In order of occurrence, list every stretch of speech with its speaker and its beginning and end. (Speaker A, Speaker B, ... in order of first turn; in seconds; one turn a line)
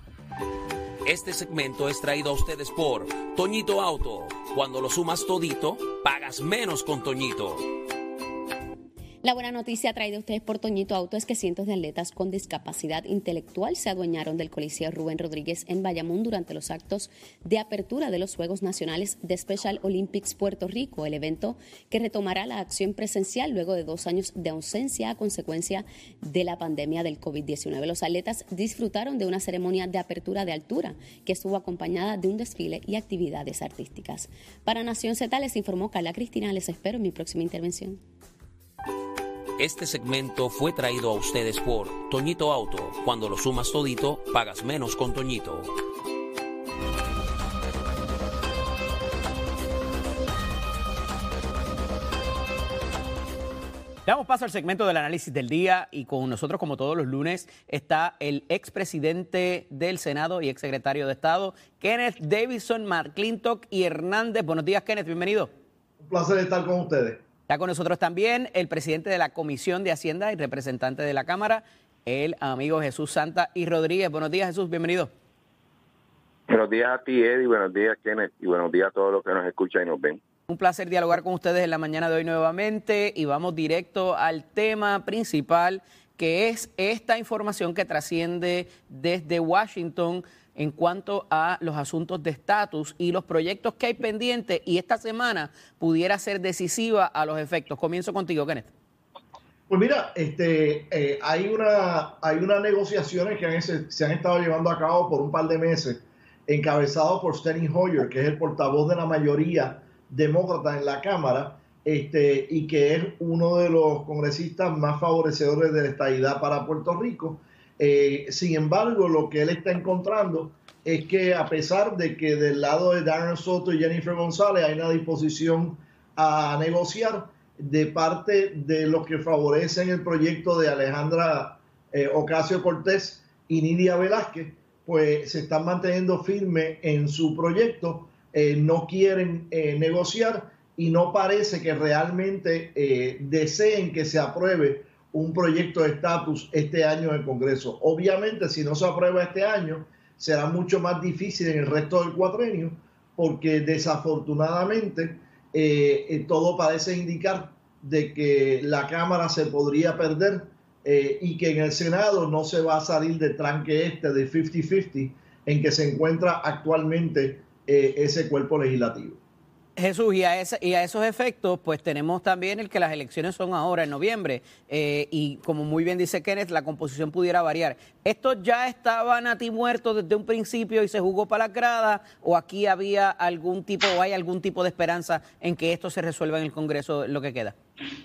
Speaker A: 1.0-7.7
Speaker B: 9.2-38.0
Speaker A: 39.6-45.7
Speaker C: 54.0-65.5
Speaker D: 66.0-67.2
Speaker C: 67.5-75.1
Speaker E: 76.5-80.2
Speaker C: 80.5-98.7
Speaker D: 99.7-169.2
Speaker C: 169.8-187.6